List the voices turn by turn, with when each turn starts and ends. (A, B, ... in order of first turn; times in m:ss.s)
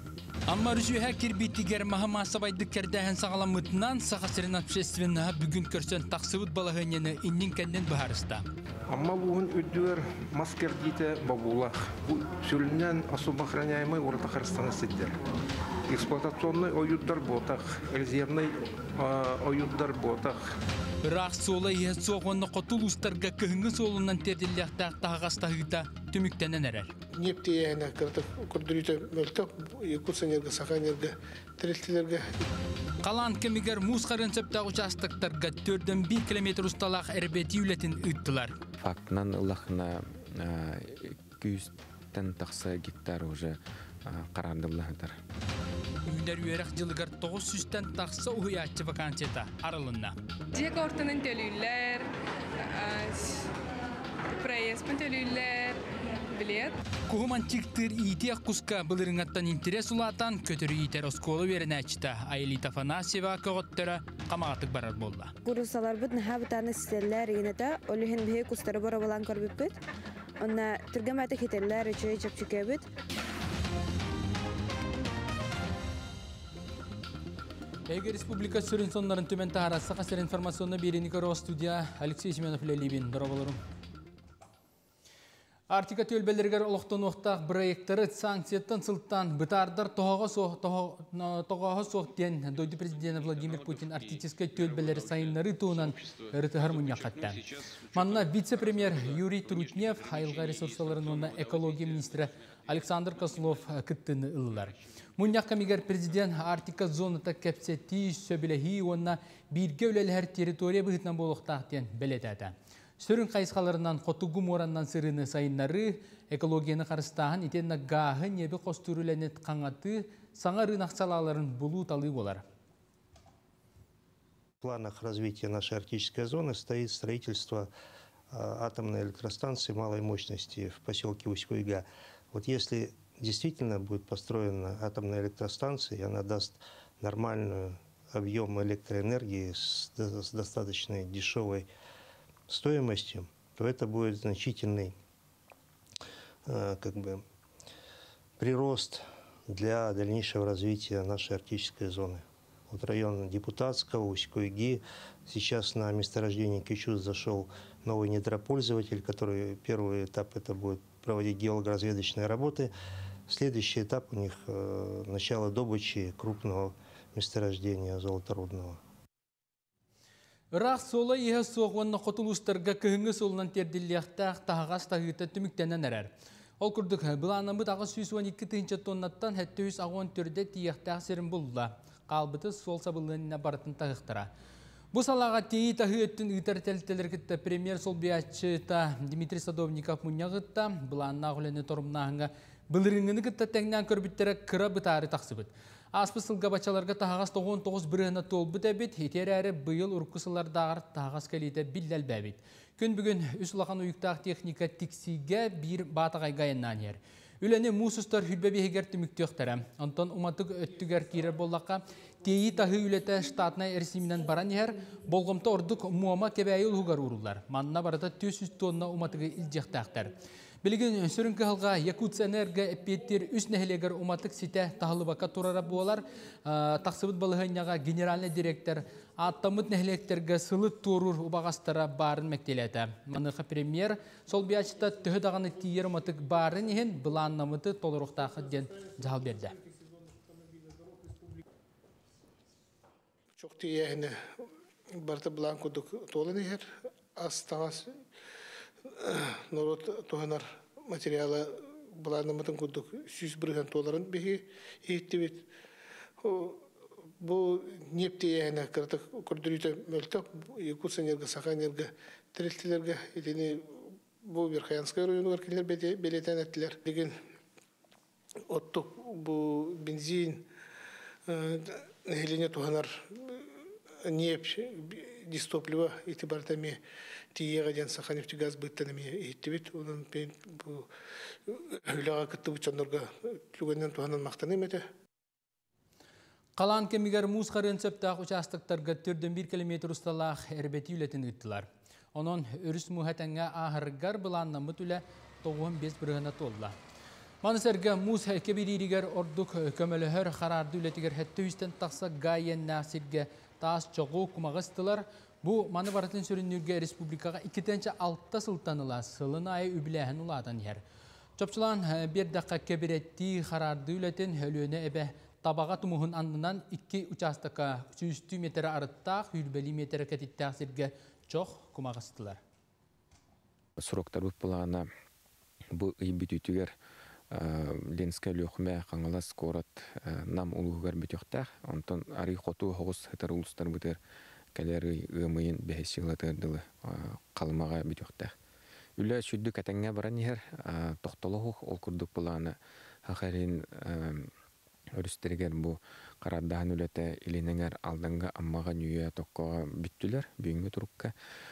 0:00.5-0:08.4 A
0:08.9-0:15.2 B
0:15.9-0:20.4 B
0:21.0-0:26.9 A
0:27.2-0:32.3 C
0:33.0-0:38.5 A
0:38.8-0:45.2 D
0:46.0-0:50.1 A
0:50.5-0:52.1 E
0:52.6-0:53.5 E
0:54.3-0:55.8 E
0:56.3-0:56.7 E
0:57.1-1:05.3 A
1:05.4-1:09.8 F
1:10.4-1:12.8 F
1:17.9-1:23.6 A
1:25.7-2:02.4 A
2:04.6-2:07.7 G
2:08.3-2:21.7 G
2:22.5-2:24.9 G
2:26.4-2:27.2 G
2:28.4-2:42.7 G
2:43.3-2:48.8 G
2:50.5-3:04.3 A
3:04.9-3:59.5 A
4:03.4-4:08.0 C
4:08.8-4:15.5 C
4:16.2-4:16.7 C
4:17.2-4:27.2 C
4:28.5-4:30.4 C
4:31.3-4:36.8 C
4:37.3-4:44.8 C
4:46.6-4:56.7 A
4:57.4-5:10.8 A
5:11.4-5:22.4 A
5:23.8-5:24.9 D
5:25.7-5:26.7 D
5:27.3-5:34.0 D
5:34.5-5:38.3 D
5:39.0-5:44.3 D
5:44.9-5:51.1 D